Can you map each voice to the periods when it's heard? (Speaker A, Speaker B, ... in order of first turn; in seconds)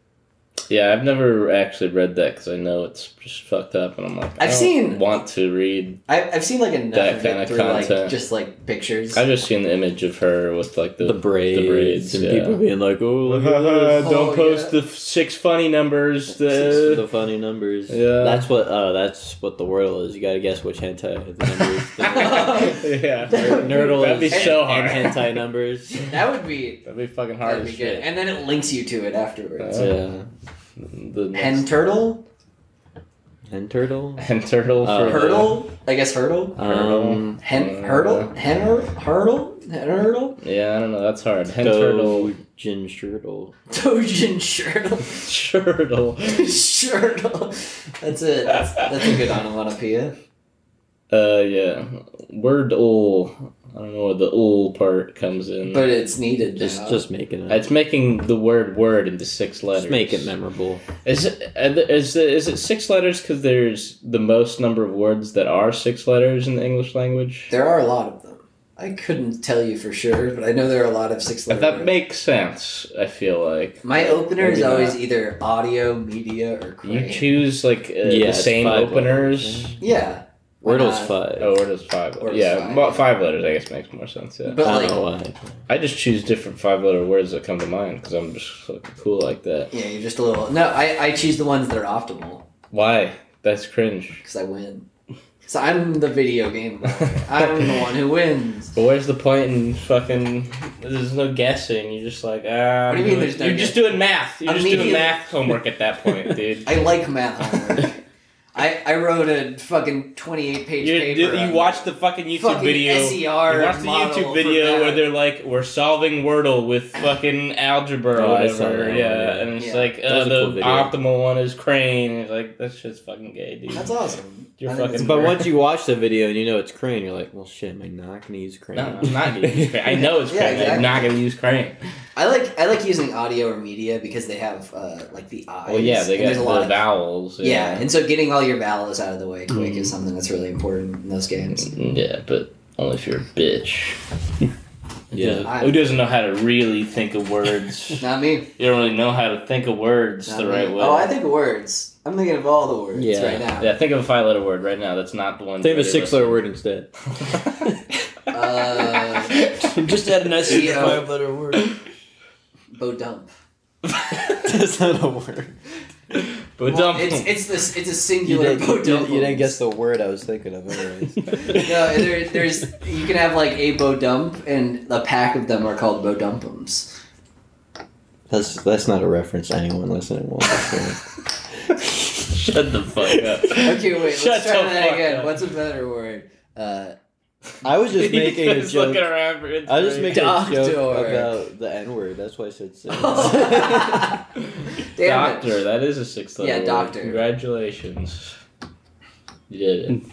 Speaker A: 0.7-6.0, 6.9-8.2, 9.1-12.6, 13.2-17.0, 17.9-18.4, 22.0-25.2, 26.8-28.1, 29.6-30.0, 30.8-31.7, 34.2-35.6, 36.6-38.3, 40.4-42.3, 45.2-46.5, 48.8-49.1, 51.1-55.9, 57.5-60.3, 61.0-67.5, 71.5-75.0, 76.8-79.7, 81.4-84.6, 85.7-89.7, 92.7-94.2, 98.7-106.7, 110.8-123.9, 124.6-125.5, 128.7-131.8, 135.7-137.8, 141.6-144.0, 145.1-148.0, 148.6-151.1, 153.6-156.4, 157.2-157.6, 159.1-159.6, 166.1-167.3, 182.2-185.3, 187.9-190.3, 194.5-198.3, 199.5-200.0
Speaker B: 4.4-5.0, 6.1-9.2, 14.0-14.8, 22.0-24.7, 26.0-26.8, 27.4-29.9, 31.3-32.2, 35.0-36.8, 37.4-40.4, 43.7-45.3, 46.2-50.1, 55.7-57.0, 67.5-71.9, 73.8-77.2, 79.8-81.1, 82.2-83.0, 84.5-85.0, 89.7-92.4, 94.2-94.8, 95.4-98.7, 102.9-103.9, 104.4-105.2, 106.6-107.9, 108.5-115.0, 119.6-119.9, 123.7-125.4, 130.2-131.1, 132.2-136.8, 137.4-141.8, 145.4-145.9, 148.0-148.5, 150.3-153.7, 158.3-159.4, 160.4-161.1, 162.7-163.3, 166.7-169.6, 171.4-176.9, 183.5-186.9, 190.1-191.3, 192.9-194.2, 194.8-195.6, 196.4-197.2
Speaker C: 11.0-14.1, 16.5-22.7, 23.3-26.1, 29.7-30.2, 33.5-34.2, 34.8-35.5, 36.6-37.4, 41.6-43.5, 56.6-57.6, 59.7-60.8, 78.0-79.8, 80.6-81.5, 84.6-85.3, 118.1-119.5, 120.0-120.9, 125.0-129.8, 145.1-145.5, 152.9-153.4, 155.6-156.9, 164.1-165.5, 168.2-172.1, 178.3-181.0, 187.6-189.1, 189.7-194.2
Speaker D: 159.6-161.7